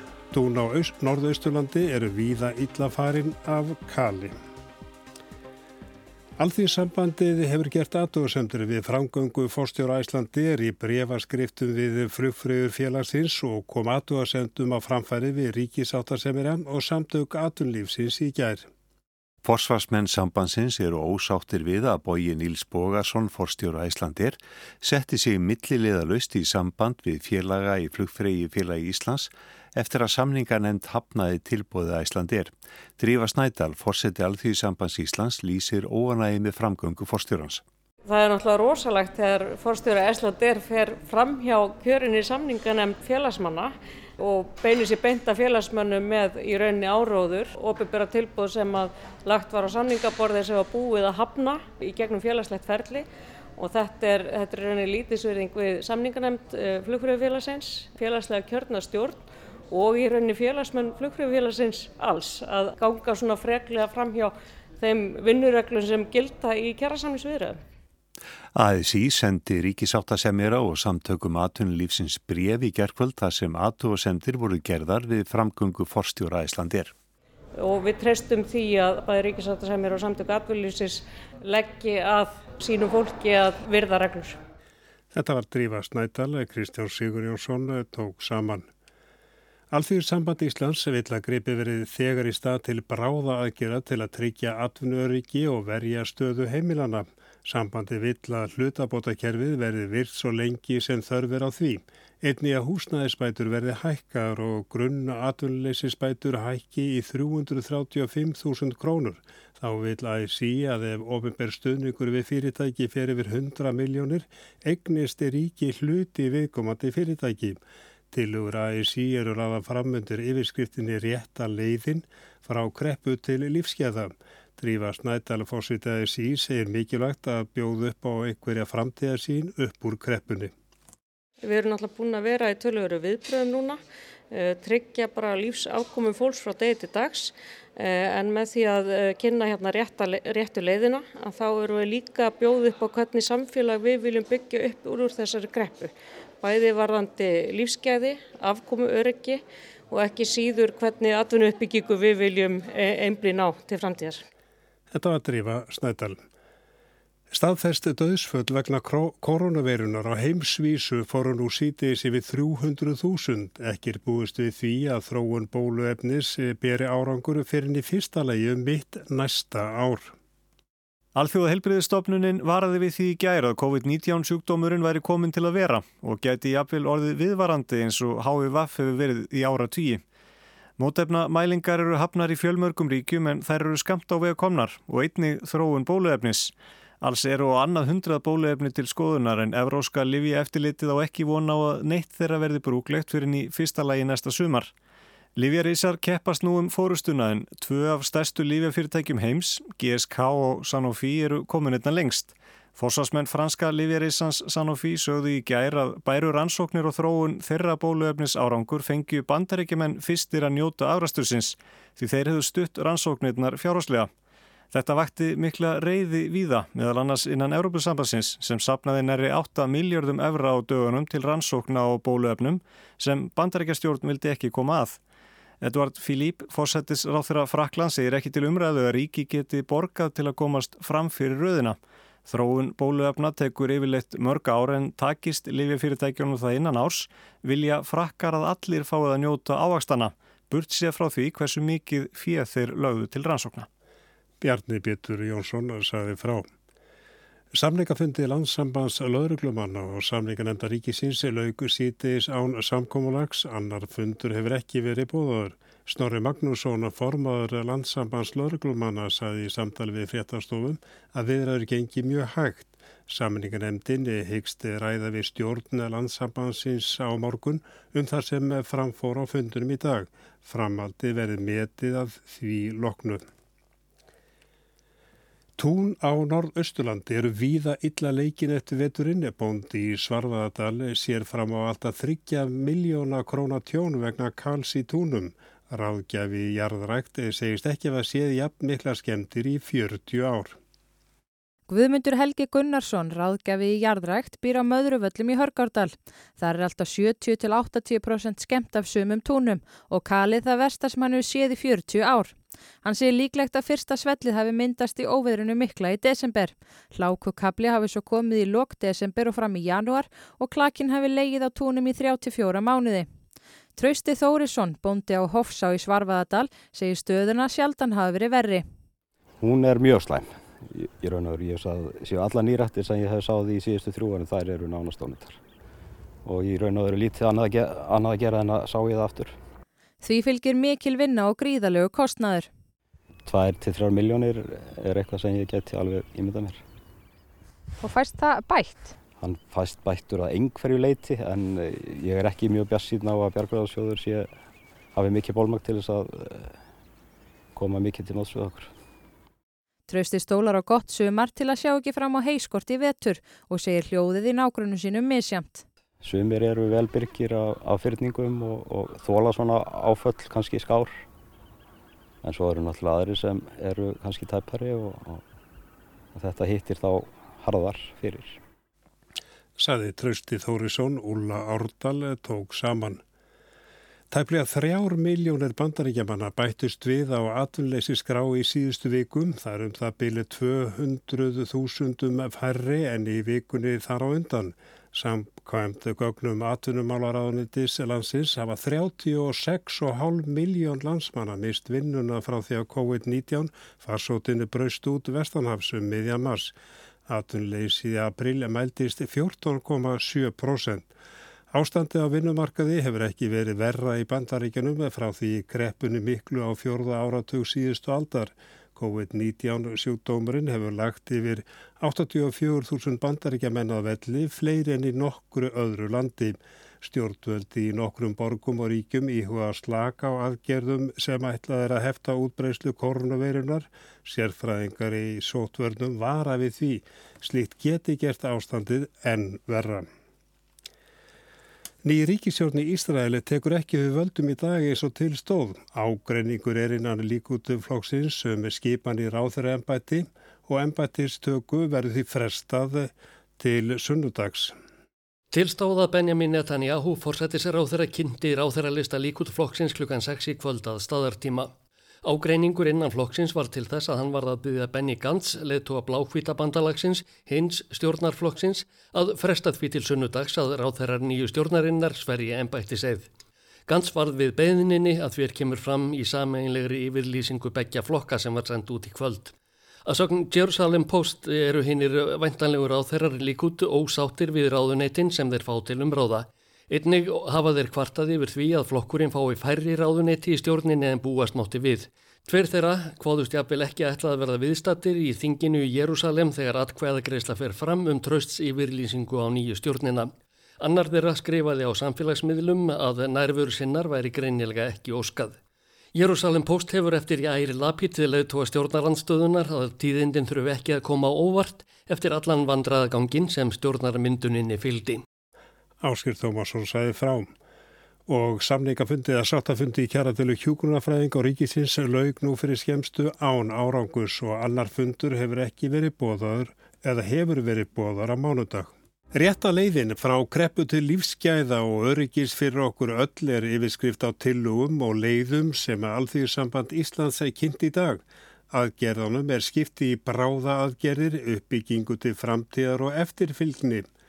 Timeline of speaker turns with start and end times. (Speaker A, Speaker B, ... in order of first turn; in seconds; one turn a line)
Speaker A: 0.3-4.4
Speaker A: 6.4-18.7
Speaker B: 19.4-37.6
Speaker C: 38.0-53.0
Speaker C: 53.6-67.6
Speaker B: 68.5-76.9
Speaker C: 77.6-84.4
Speaker A: 85.1-88.7
Speaker A: 89.7-117.6
Speaker A: 118.1-130.5
Speaker C: 131.4-133.8
Speaker C: 134.3-154.2
Speaker A: 154.9-156.2
Speaker A: 157.3-170.1
Speaker D: 171.1-180.0
Speaker D: 180.8-194.7
Speaker D: 195.3-214.1
Speaker D: 214.7-225.0
Speaker D: 225.6-243.7
Speaker A: 244.4-246.5
Speaker A: 247.5-273.2
Speaker A: 275.6-290.6
Speaker E: 291.7-313.1
Speaker E: 313.8-318.6
Speaker F: 319.4-325.4
Speaker F: 326.2-329.4
Speaker E: 330.0-332.5
Speaker F: 333.2-336.6
Speaker E: 337.8-338.9
Speaker F: 339.2-344.3
Speaker F: 344.9-346.6
Speaker F: 347.5-348.7
Speaker E: 349.9-355.6
Speaker F: 356.0-361.0
Speaker F: 362.2-365.2
Speaker F: 366.1-368.4
Speaker A: 369.6-373.0
Speaker A: 374.1-396.5
Speaker A: 397.1-400.9
Speaker A: 401.5-429.9
Speaker A: 431.8-444.5
Speaker G: 445.3-463.1
Speaker G: 463.7-469.3
Speaker G: 469.9-495.4
Speaker G: 495.9-505.0
Speaker A: 505.8-507.3
Speaker A: 508.1-533.9